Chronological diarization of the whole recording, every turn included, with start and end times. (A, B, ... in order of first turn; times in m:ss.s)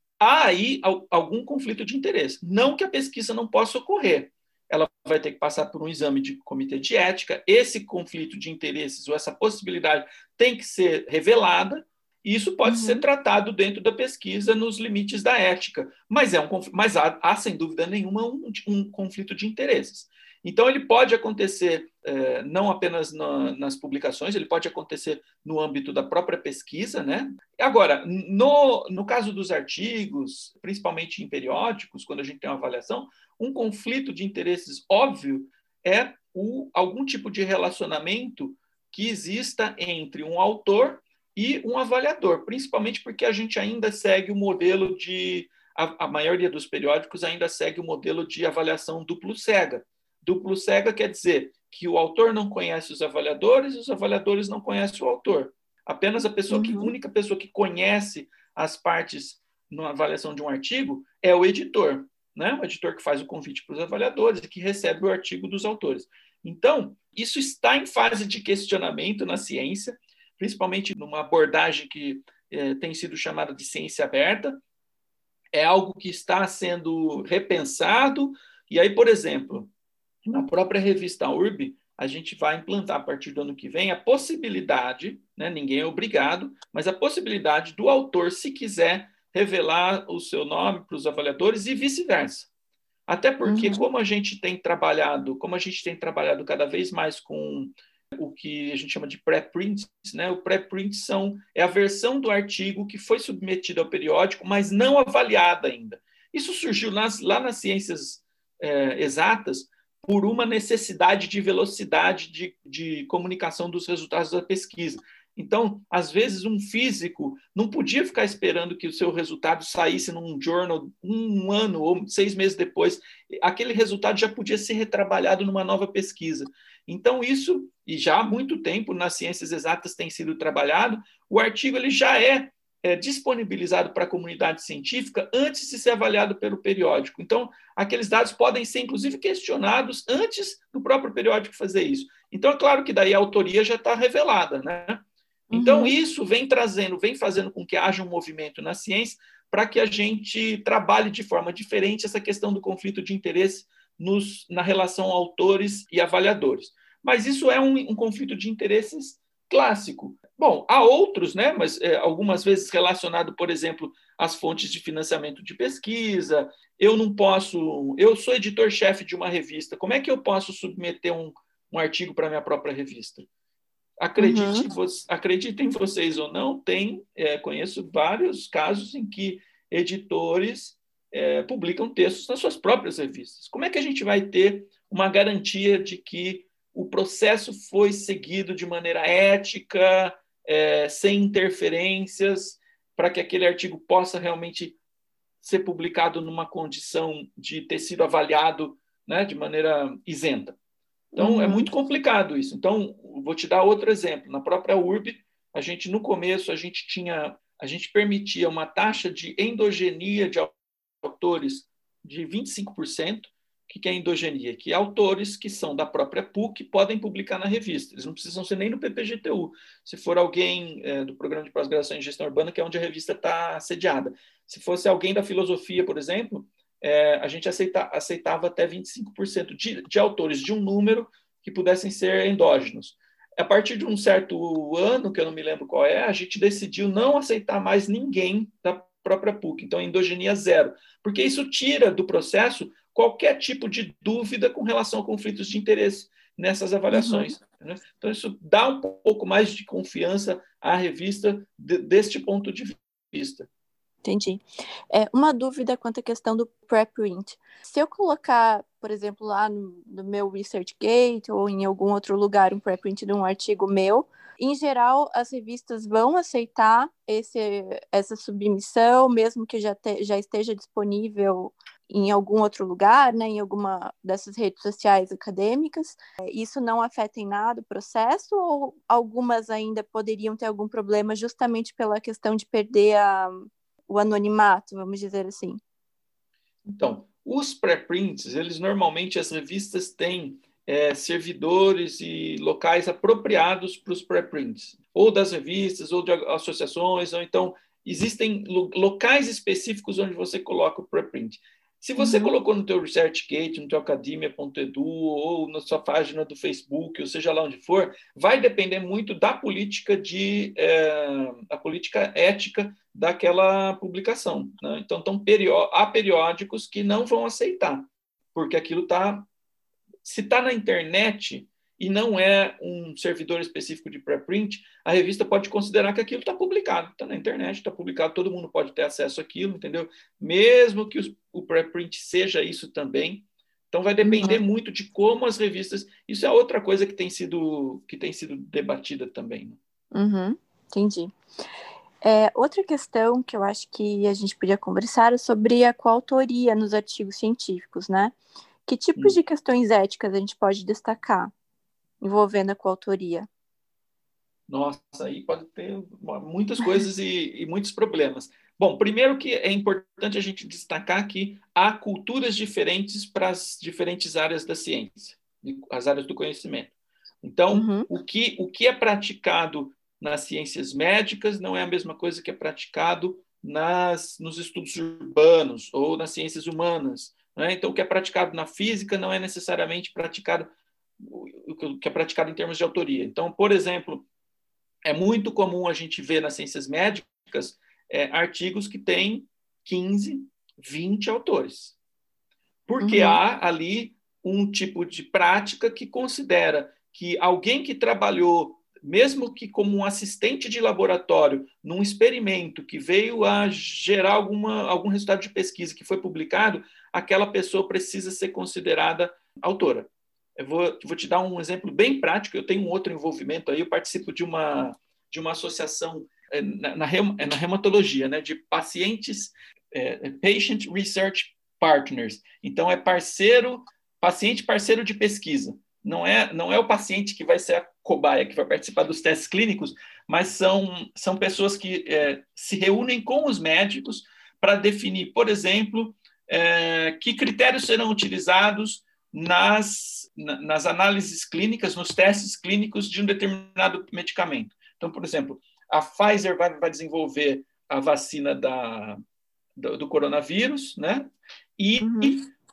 0:00.2-1:14.6 A
0:12.6-0:13.0 B
0:56.5-0:56.9 B
1:15.5-1:19.7 A
1:20.2-1:32.5 A
1:33.1-2:53.3 A
1:33.4-1:33.8 B
2:25.5-2:26.0 B
2:54.0-3:14.8 A
2:54.2-2:54.7 B
3:15.4-3:20.6 A
3:21.1-3:21.7 B
3:21.2-4:13.5 A
4:06.9-4:07.3 B
4:14.0-4:45.6 B
4:46.7-5:19.3 A
5:02.0-5:02.3 B
5:20.0-5:39.6 A
5:34.0-5:34.4 B
5:39.9-5:41.1 B
5:42.0-5:48.2 B
5:48.7-5:51.3 B
5:52.0-5:53.3 B
5:54.5-6:24.1 A
6:07.5-6:07.9 B
6:24.8-6:31.8 A
6:32.7-7:29.0 A
6:32.8-6:33.2 B
7:29.6-7:32.3 A
7:31.8-7:32.2 B